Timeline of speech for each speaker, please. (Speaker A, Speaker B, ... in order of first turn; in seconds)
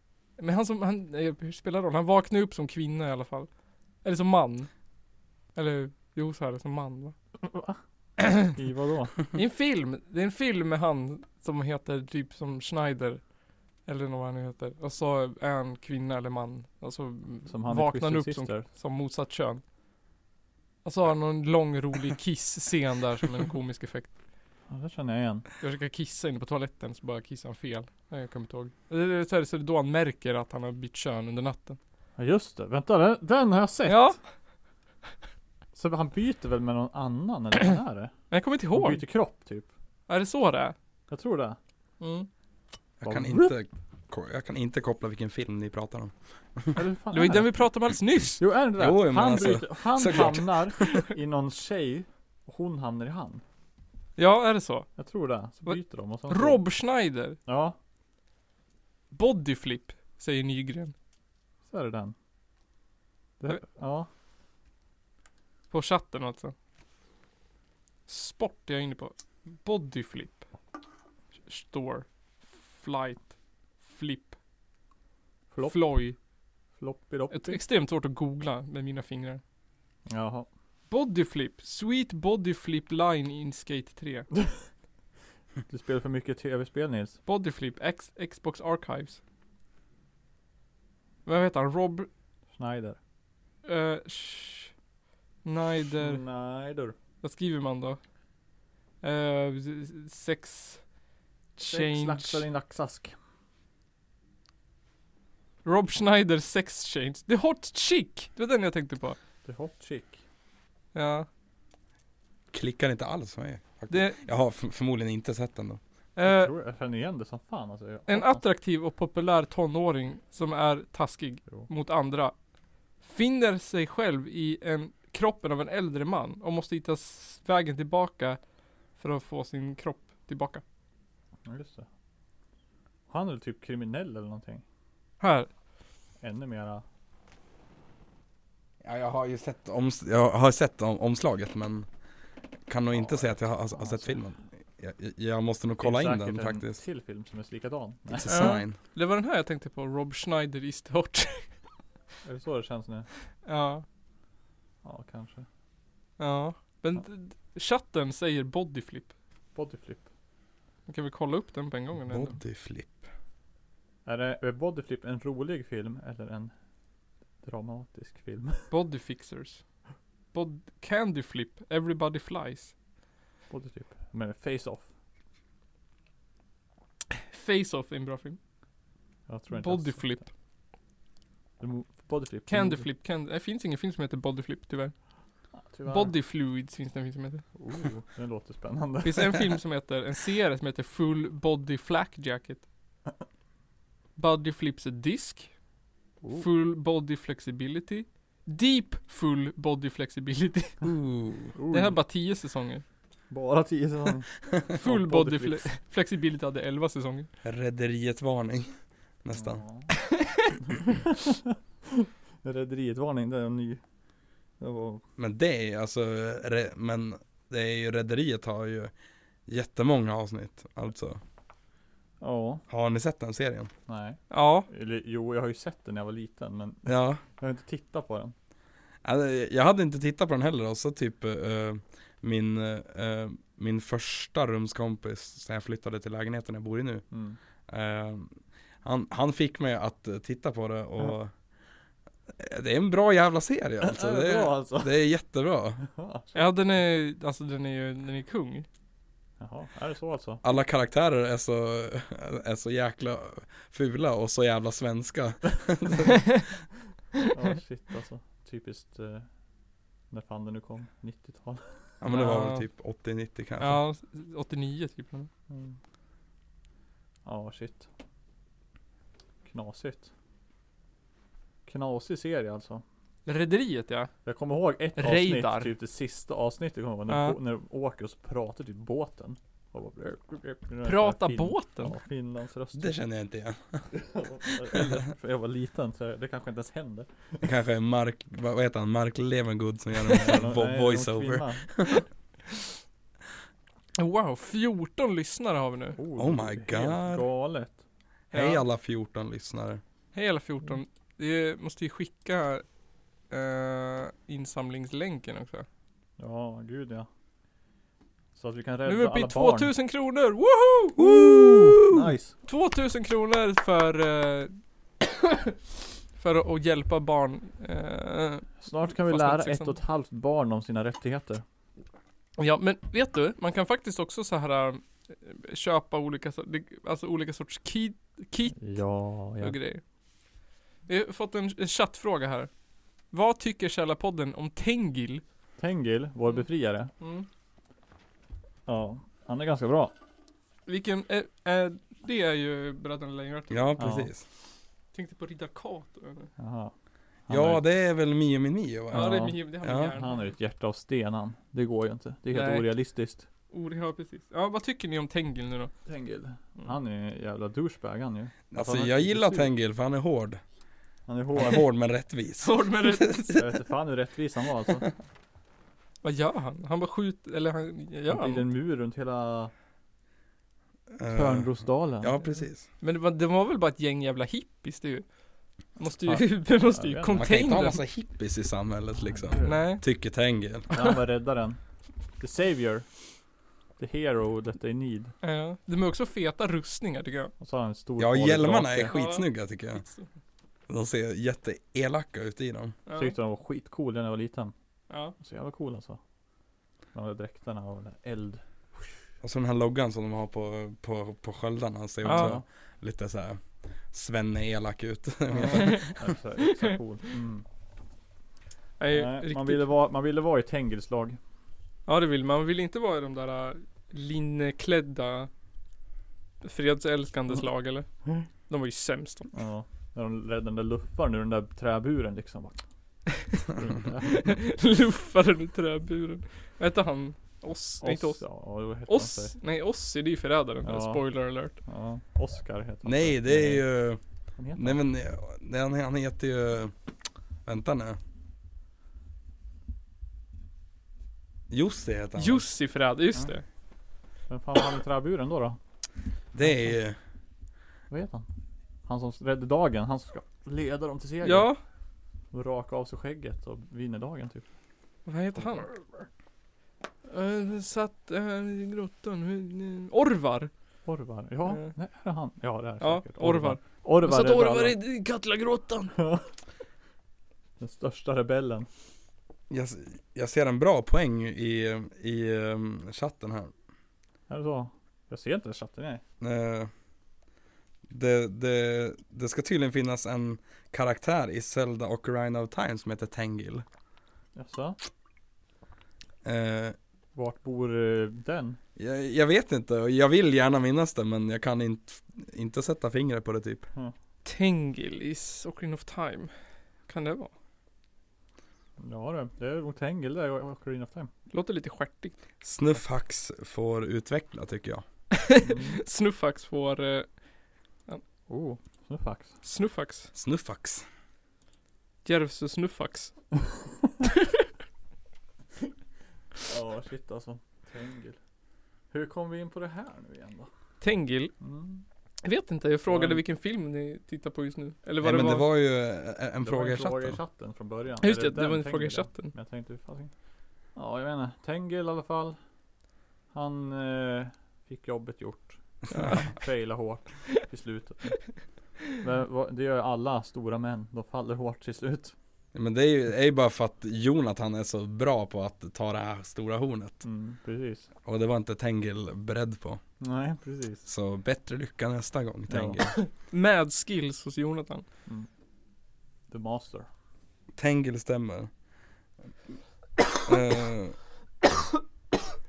Speaker A: 0.4-3.5, 4.0-4.7, 5.5-7.1, 8.2-8.5, 9.3-13.2, 13.8-19.6, 20.8-24.1, 25.6-31.8, 33.9-34.2, 38.3-39.0, 40.1-40.8, 42.0-42.3, 47.1-48.4, 54.2-54.9, 55.6-57.4, 59.1-60.9, 65.7-66.5, 68.1-70.4, 71.5-73.3, 73.8-74.3, 75.6-76.2, 77.3-79.4, 80.9-84.3, 87.2-89.2, 91.2-92.1, 93.6-94.7, 95.4-96.2, 97.2-98.0, 99.0-100.8, 101.5-102.4, 105.6-109.2, 110.9-111.3, 113.9-114.2, 116.2-116.5, 118.1-122.3, 123.0-128.4, 129.0-130.6, 135.2-135.5, 148.3-151.5, 153.4-153.8, 156.2-159.1, 160.9-162.4, 168.7-169.6, 170.3-172.7, 177.2-178.4, 179.5-180.3, 182.5-184.9, 185.9-187.4, 189.0-192.6, 194.2-195.5, 196.3-200.8, 201.7-202.8, 204.7-207.3, 224.3-224.7, 246.3-248.7, 262.1-262.6, 263.6-265.3, 273.2-274.1, 275.0-275.7, 277.1-277.4, 280.8-281.9, 294.0-296.0, 298.3-298.6, 300.1-302.6, 303.3-305.6, 308.9-311.3, 312.4-315.6, 316.1-319.8, 322.4-328.6, 329.4-329.8, 330.9-332.5, 333.1-335.2, 337.0-337.3, 340.7-343.8, 344.9-346.3, 348.9-350.2, 352.3-352.7, 353.5-355.7, 362.4-363.4, 366.0-368.4, 372.8-375.1, 375.8-377.8, 379.4-379.8, 385.2-387.3, 388.9-390.1, 392.9-393.1, 394.9-395.1, 402.0-402.3, 405.5-405.9, 408.8-409.6, 411.9-415.3, 416.4-417.9, 418.5-419.3, 424.0-428.2, 428.9-431.6, 442.2-443.4, 451.2-451.6, 455.1-455.7, 457.1-460.5, 462.8-466.0, 494.2-496.3, 496.9-497.3, 501.3-502.1, 505.1-507.1, 509.4-510.1, 512.0-513.1, 520.8-521.3, 522.2-525.5, 528.0-529.3, 553.0-554.8
Speaker B: 7.4-7.8, 8.4-9.2, 17.5-18.6, 24.7-25.4, 32.2-34.1, 35.7-38.1, 38.7-39.7, 41.1-41.6, 43.0-43.6, 46.7-47.5, 48.4-53.4, 55.0-56.6, 57.5-57.8, 61.7-62.1, 63.4-64.1, 75.5-75.9, 76.8-77.6, 80.1-80.5, 85.7-87.2, 92.5-93.0, 96.0-96.9, 101.7-103.1, 109.4-110.2, 116.2-118.4, 131.4-131.8, 133.1-134.6, 136.2-136.8, 142.9-144.2, 145.8-148.4, 152.2-153.1, 154.8-155.4, 159.5-160.1, 164.1-166.5, 167.4-168.7, 173.5-174.8, 179.3-180.2, 181.6-182.8, 185.5-186.1, 187.6-189.5, 196.2-196.5, 201.5-202.0, 203.3-205.7, 209.3-209.9, 210.7-213.8, 214.6-215.0, 222.2-222.6, 223.9-228.3, 237.1-237.4, 243.8-244.9, 245.9-246.4, 249.4-250.4, 257.3-259.2, 260.1-262.0, 265.5-265.8, 267.2-267.9, 269.4-270.1, 271.6-272.8, 274.2-283.0, 283.9-287.4, 290.1-291.9, 296.0-297.8, 306.2-307.1, 308.3-309.7, 311.8-312.3, 318.6-321.4, 328.6-329.6, 335.6-336.9, 338.7-339.9, 343.8-344.1, 346.4-346.7, 347.3-347.6, 348.9-349.4, 349.9-353.2, 355.9-359.5, 361.1-361.6, 363.3-364.9, 368.1-369.5, 371.1-372.2, 376.0-377.3, 379.0-379.6, 380.7-381.6, 382.2-382.9, 383.8-385.1, 387.4-388.9, 392.9-394.5, 395.2-396.0, 396.9-398.9, 402.0-402.4, 405.3-407.4, 408.9-411.2, 419.3-422.6, 423.6-424.3, 427.8-429.3, 430.6-431.0, 431.5-433.6, 434.4-434.8, 444.3-445.6, 447.9-448.3, 448.9-451.5, 452.3-454.4, 460.8-464.8, 465.9-466.2, 467.6-468.7, 474.3-476.0, 484.4-484.8, 487.1-488.6, 498.8-501.1, 505.4-505.8, 508.3-509.3, 516.4-518.2, 518.9-520.5, 521.4-521.8, 522.9-523.2, 526.4-530.1, 530.8-532.4, 533.3-538.2, 538.9-542.1, 547.0-547.9, 550.0-550.8, 552.5-552.8, 556.3-556.9
Speaker C: 43.0-46.8, 48.8-51.0, 112.5-115.8, 138.8-141.9, 142.7-146.8, 148.1-148.8, 162.1-163.1, 200.8-201.5, 207.4-209.6, 215.2-218.9, 219.5-221.2, 222.7-223.7, 226.8-227.2, 229.0-237.0, 237.7-241.3, 242.3-245.8, 250.4-256.2, 262.0-263.8, 282.7-283.9, 284.6-285.0, 287.4-292.0, 296.2-297.2, 298.3-299.8, 311.0-312.1, 343.5-344.2, 347.3-349.9, 358.5-360.4, 361.3-363.2, 370.9-372.6, 377.1-380.7, 388.0-389.8, 390.7-392.8, 399.2-403.4, 403.9-406.0, 432.8-434.0, 434.5-436.7, 437.4-438.0, 441.5-442.4, 446.3-447.0, 469.5-473.5, 476.2-476.7, 477.9-483.6, 486.2-486.8, 488.8-493.7, 502.4-504.8, 510.1-510.8, 525.0-527.2, 535.9-536.2, 542.5-547.0, 548.0-549.8, 550.9-552.9, 557.5-558.5, 560.2-561.0